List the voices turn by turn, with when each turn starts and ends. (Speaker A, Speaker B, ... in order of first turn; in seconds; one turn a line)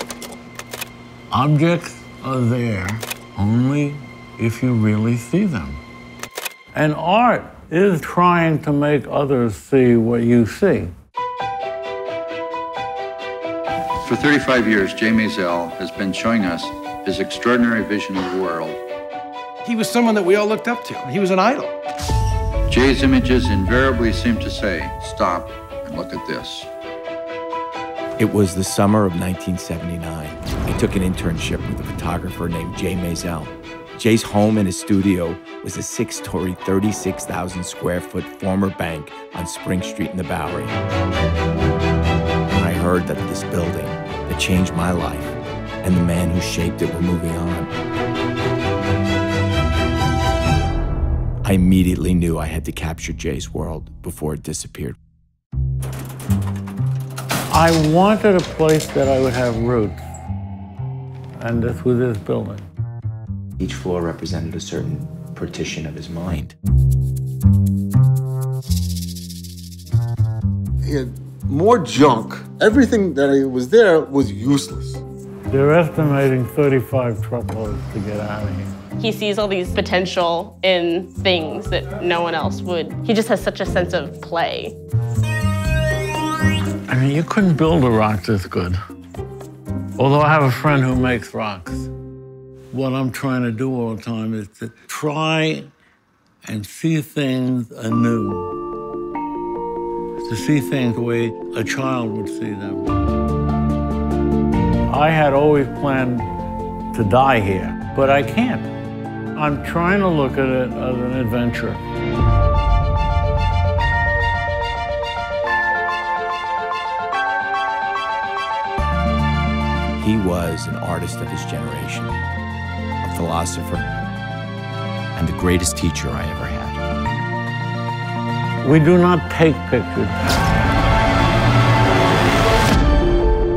Speaker A: 1.3-5.8
Speaker A: 6.7-10.9
Speaker B: 14.0-18.8
Speaker C: 19.6-21.7
Speaker B: 22.7-26.7
Speaker D: 28.2-40.8
Speaker D: 42.5-47.7
Speaker D: 51.4-55.0
Speaker A: 57.5-60.0
Speaker A: 61.4-62.6
Speaker D: 63.6-66.5
Speaker E: 70.8-75.0
Speaker A: 75.5-78.7
Speaker F: 79.0-84.7
Speaker A: 86.9-88.8
Speaker A: 90.0-91.9
Speaker A: 92.7-95.7
Speaker A: 96.4-98.5
Speaker A: 100.2-102.9
Speaker A: 104.9-106.3
Speaker A: 106.9-108.7
Speaker A: 109.3-111.8
Speaker D: 120.0-122.2
Speaker D: 123.0-123.9
Speaker D: 125.1-126.8
Speaker A: 128.6-130.3